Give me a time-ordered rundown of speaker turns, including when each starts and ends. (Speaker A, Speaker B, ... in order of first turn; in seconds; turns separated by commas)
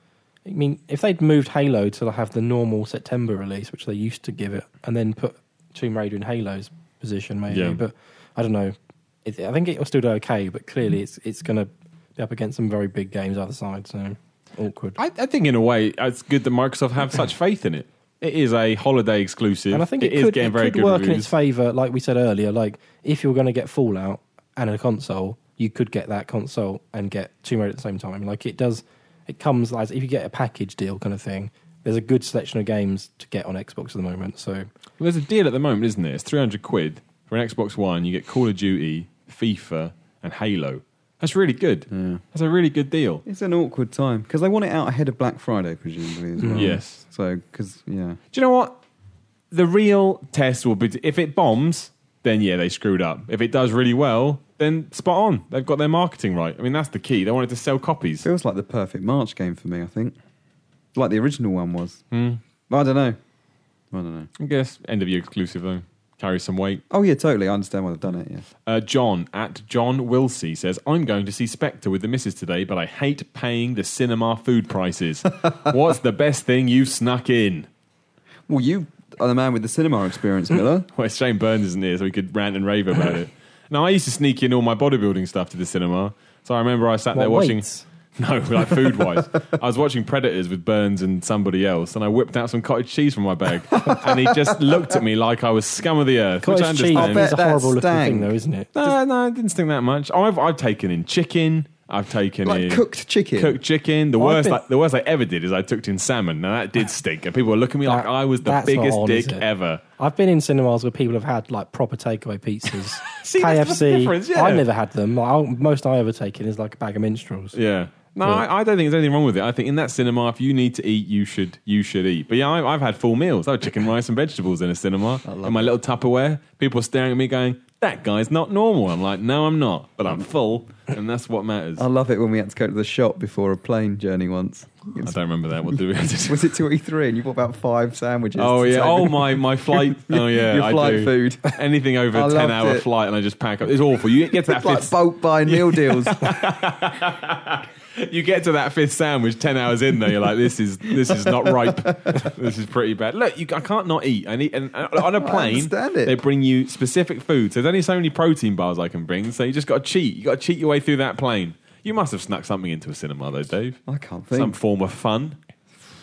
Speaker A: 0.5-15.0, Speaker B: 7.5-7.8, Speaker B: 15.0-21.3, Speaker A: 19.7-34.7, Speaker B: 35.0-43.2, Speaker C: 41.9-42.2, Speaker C: 43.2-48.2, Speaker A: 46.4-46.7, Speaker B: 46.5-47.0, Speaker B: 48.3-48.8, Speaker B: 49.5-58.3, Speaker C: 58.2-60.1, Speaker C: 60.9-62.0, Speaker B: 62.1-62.4, Speaker C: 62.7-63.2, Speaker C: 63.9-64.3, Speaker B: 64.4-66.8, Speaker C: 66.9-68.5, Speaker B: 68.7-77.7, Speaker C: 78.5-80.9, Speaker B: 80.9-87.6, Speaker A: 87.1-87.8, Speaker B: 88.2-97.3, Speaker C: 93.7-95.0, Speaker A: 96.4-98.7, Speaker C: 96.9-98.3, Speaker B: 98.7-102.8, Speaker C: 102.4-103.6, Speaker B: 103.3-109.8, Speaker A: 104.2-104.6, Speaker A: 107.8-109.5, Speaker A: 110.0-117.5, Speaker B: 112.8-114.6, Speaker B: 117.5-131.8, Speaker C: 125.2-125.8, Speaker C: 131.8-135.1, Speaker B: 135.0-136.5, Speaker C: 135.7-141.6, Speaker B: 138.4-163.8, Speaker C: 142.1-142.8, Speaker C: 144.4-146.5, Speaker C: 151.0-152.3, Speaker C: 155.0-156.2, Speaker C: 163.9-164.6, Speaker B: 164.3-165.4